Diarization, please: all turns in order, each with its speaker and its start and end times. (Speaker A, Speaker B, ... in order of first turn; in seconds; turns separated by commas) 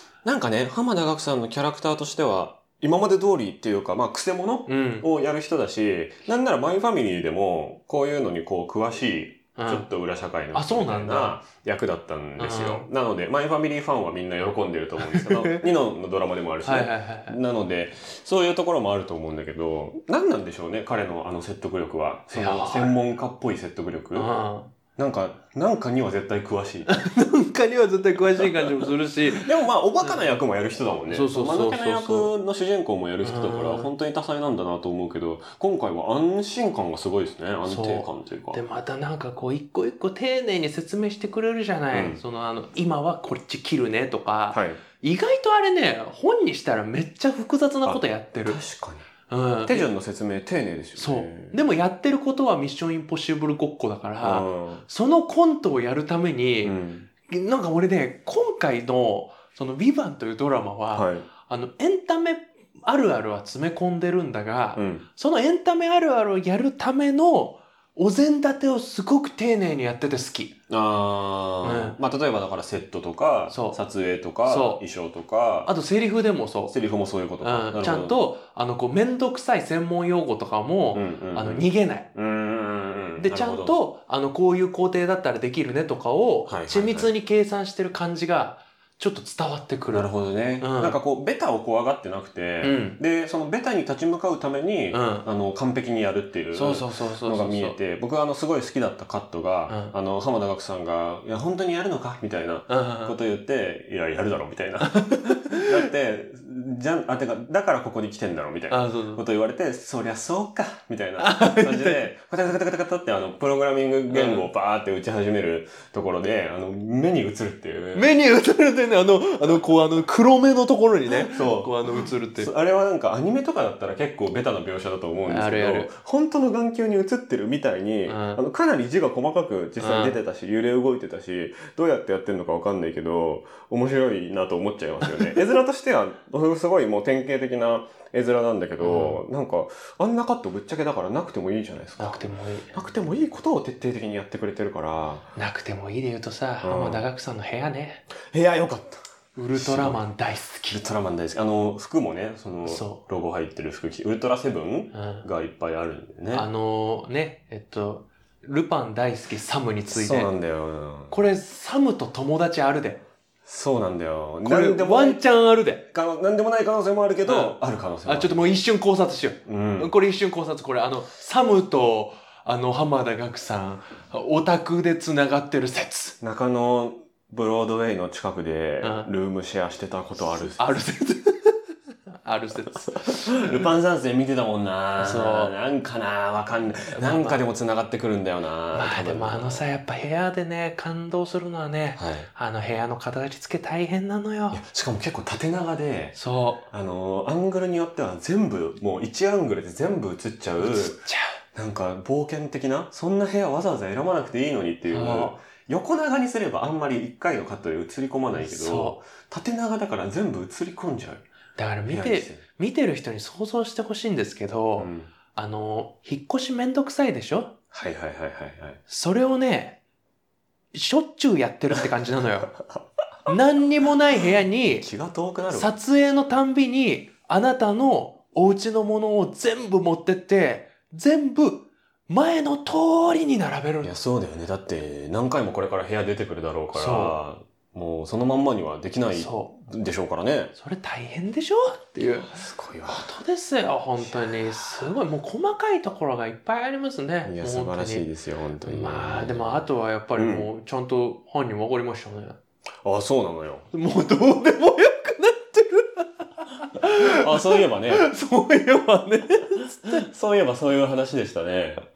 Speaker A: 0.2-24.3, Speaker B: 4.7-5.1, Speaker B: 9.6-9.9, Speaker B: 10.5-11.4, Speaker B: 12.4-12.9, Speaker B: 15.0-15.7, Speaker B: 16.6-17.4, Speaker B: 22.3-23.0, Speaker B: 24.1-24.7, Speaker A: 24.9-26.9, Speaker B: 26.9-29.5, Speaker A: 28.3-38.6, Speaker B: 30.0-30.3, Speaker B: 31.1-32.3, Speaker B: 33.2-33.9, Speaker B: 37.6-48.6, Speaker A: 41.9-42.2, Speaker A: 44.5-44.8, Speaker A: 47.8-49.0, Speaker B: 49.3-49.9, Speaker A: 49.6-51.6, Speaker B: 51.0-70.5, Speaker A: 54.2-54.8, Speaker A: 56.6-57.1, Speaker A: 60.9-61.3, Speaker A: 64.8-65.0, Speaker A: 70.7-75.7, Speaker B: 71.6-72.0, Speaker B: 73.5-73.8, Speaker B: 74.4-74.8, Speaker B: 75.7-76.7, Speaker A: 76.7-78.2, Speaker B: 77.4-82.1, Speaker A: 80.9-83.8, Speaker B: 83.2-90.1, Speaker A: 86.5-87.1, Speaker A: 89.9-118.1, Speaker B: 90.6-91.0, Speaker B: 92.6-93.0, Speaker B: 94.9-95.2, Speaker B: 96.5-97.8, Speaker B: 99.7-99.9, Speaker B: 102.7-103.2, Speaker B: 104.9-105.8, Speaker B: 108.7-109.2, Speaker B: 111.2-112.0, Speaker B: 114.1-114.5, Speaker B: 117.9-122.5, Speaker A: 121.1-145.3, Speaker B: 125.3-125.9, Speaker B: 128.1-128.4, Speaker B: 129.8-130.2, Speaker B: 138.8-139.2, Speaker B: 142.0-142.7, Speaker B: 145.3-148.0, Speaker A: 146.6-147.0, Speaker A: 148.3-150.1, Speaker B: 149.3-150.8, Speaker A: 150.7-156.5, Speaker B: 152.6-153.0, Speaker B: 154.9-155.2, Speaker B: 156.3-160.3, Speaker A: 159.9-161.2, Speaker B: 161.1-163.0, Speaker A: 163.4-165.2, Speaker B: 164.4-165.8, Speaker A: 165.9-168.5, Speaker B: 167.2-176.2, Speaker A: 169.4-169.9, Speaker A: 176.2-180.6, Speaker B: 178.8-179.1, Speaker B: 180.6-181.6, Speaker B: 182.2-183.6, Speaker A: 183.1-189.6, Speaker B: 185.0-185.5, Speaker B: 186.9-187.4, Speaker B: 188.7-194.6, Speaker A: 192.0-192.3, Speaker A: 194.5-196.1, Speaker B: 196.1-196.6, Speaker A: 196.7-211.2, Speaker B: 200.6-201.4, Speaker B: 204.9-205.3, Speaker B: 208.3-209.0, Speaker B: 211.6-217.5, Speaker A: 211.9-212.4, Speaker A: 214.8-215.1, Speaker A: 217.7-218.8, Speaker B: 218.9-219.8, Speaker B: 220.7-222.6, Speaker B: 223.2-224.9, Speaker A: 224.7-225.7, Speaker B: 225.5-233.9, Speaker A: 233.8-240.5, Speaker B: 236.7-237.2, Speaker B: 239.1-239.5, Speaker B: 240.6-248.1, Speaker A: 242.2-243.1, Speaker A: 244.0-244.9, Speaker A: 247.2-250.5, Speaker B: 248.6-252.4, Speaker A: 252.8-253.7, Speaker B: 253.7-260.1, Speaker A: 256.8-258.1, Speaker A: 259.8-261.8